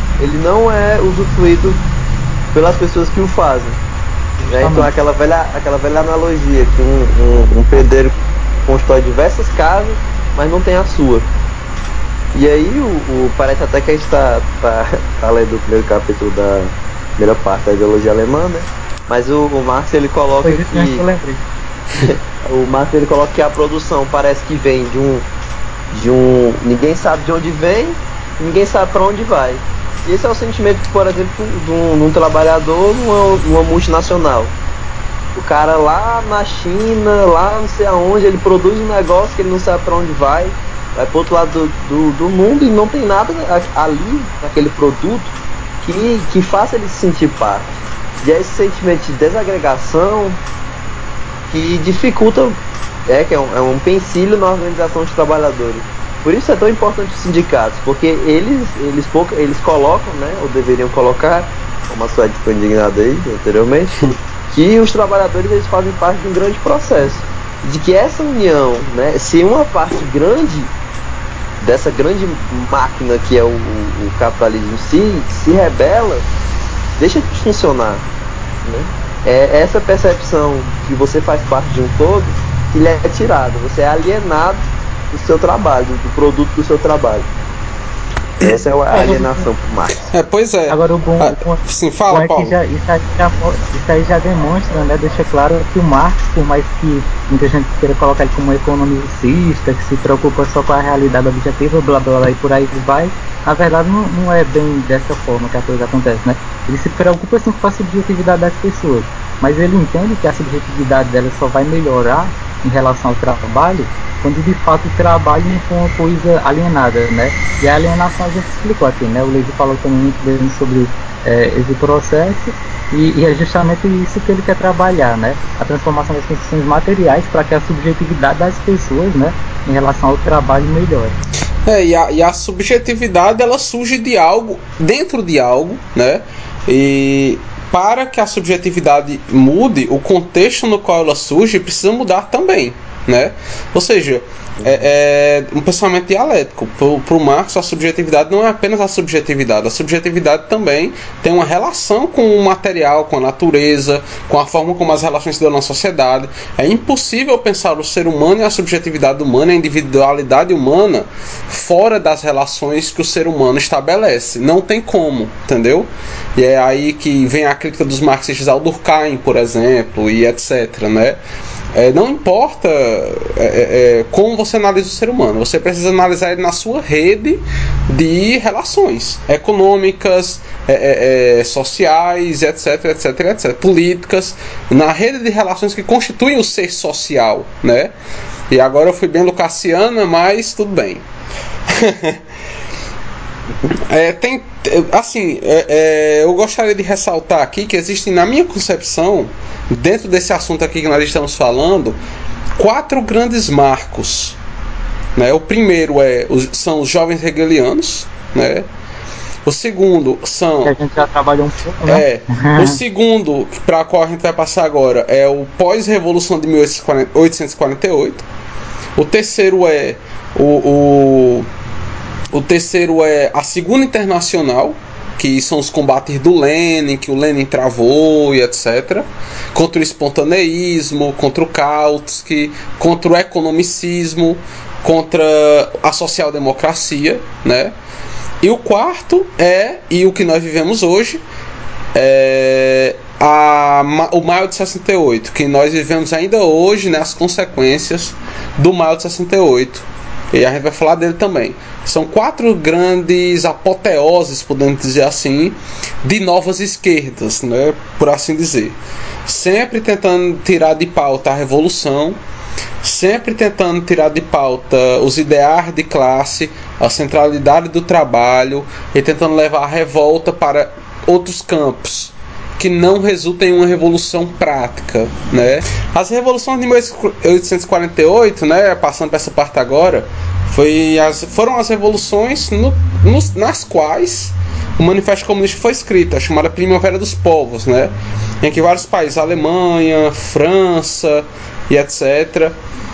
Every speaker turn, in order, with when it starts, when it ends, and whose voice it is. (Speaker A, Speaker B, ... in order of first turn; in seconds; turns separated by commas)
Speaker A: 0.2-1.8, Speaker A: 2.5-3.8, Speaker B: 4.4-4.9, Speaker A: 4.5-11.3, Speaker A: 12.3-21.0, Speaker B: 20.4-21.5, Speaker A: 21.9-25.3, Speaker A: 25.9-34.6, Speaker A: 35.4-50.4, Speaker A: 51.5-70.7, Speaker A: 71.6-76.3, Speaker A: 77.0-78.1, Speaker A: 78.6-87.3, Speaker A: 88.4-90.1, Speaker B: 88.9-89.5, Speaker C: 90.1-92.5, Speaker B: 90.7-131.2, Speaker C: 131.7-171.2, Speaker C: 171.7-187.9, Speaker C: 188.5-191.0, Speaker C: 191.7-192.2, Speaker C: 193.7-202.0, Speaker C: 202.6-204.4, Speaker C: 205.2-208.7, Speaker C: 209.4-210.8, Speaker B: 210.7-212.8, Speaker C: 211.8-218.2, Speaker C: 219.0-221.5, Speaker C: 222.3-237.7, Speaker C: 238.4-241.2, Speaker C: 241.9-262.2, Speaker C: 262.8-292.6